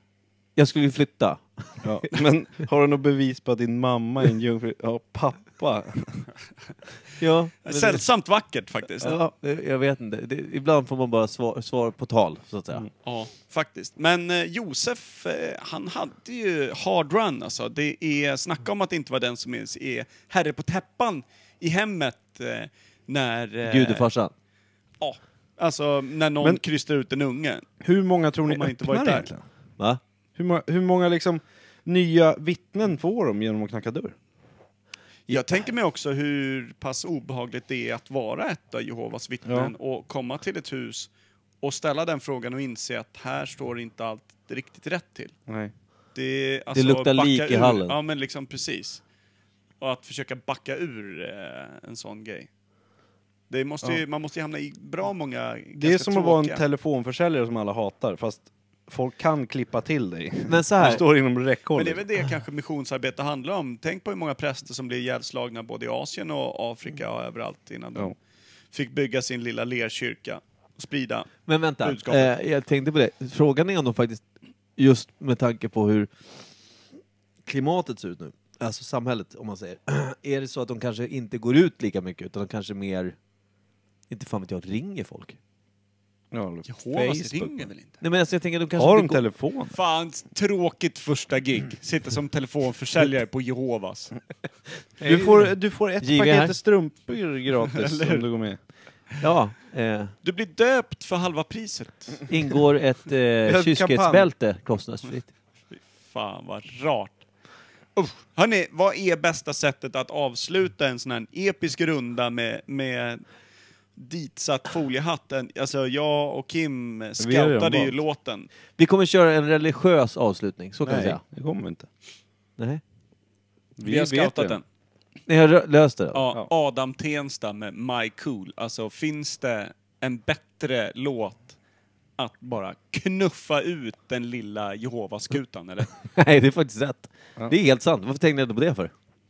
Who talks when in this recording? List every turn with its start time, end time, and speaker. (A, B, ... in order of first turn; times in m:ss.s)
0:00.6-0:01.9 A
0:01.8-0:06.3 B
0:07.2-0:08.1 A
0:07.6-0:09.2 C
0:09.0-0:12.8 A
0:13.0-0:24.0 C
0:23.6-0:24.3 A
0:25.0-0:27.8 C
0:27.8-0:29.4 B
0:28.5-0:29.3 C
0:30.4-0:34.1 B
0:35.3-0:41.1 C
0:39.4-0:39.7 B
0:41.6-0:45.4 C
0:45.5-0:45.7 B
0:46.1-0:49.0 C
0:46.7-0:48.0 A
0:49.8-0:52.5 C
0:53.5-0:56.6 C
0:55.7-1:02.0 B
1:00.4-1:01.0 A
1:01.7-1:08.1 C
1:08.7-1:11.3 C
1:11.4-1:14.2 A
1:11.8-1:12.3 C
1:14.8-1:16.1 A
1:17.4-1:23.2 A
1:24.1-1:25.4 A
1:26.3-1:27.7 B
1:26.7-1:28.0 C
1:28.0-1:29.2 A
1:28.8-1:29.8 B
1:29.7-1:34.1 C
1:35.0-1:36.6 A
1:35.0-1:38.6 B
1:37.8-1:38.2 C
1:39.2-1:40.1 A
1:40.2-1:42.3 C
1:42.3-1:45.3 A
1:43.4-1:44.3 B
1:45.7-1:47.3 C
1:48.0-1:53.2 C
1:54.0-1:58.5 C
1:57.2-1:58.0 B
1:58.8-2:01.2 A
2:00.8-2:01.9 B
2:03.8-2:04.6 B
2:03.8-2:04.6 C
2:05.3-2:06.2 A
2:06.1-2:11.6 C
2:12.2-2:15.9 C
2:16.1-2:18.9 A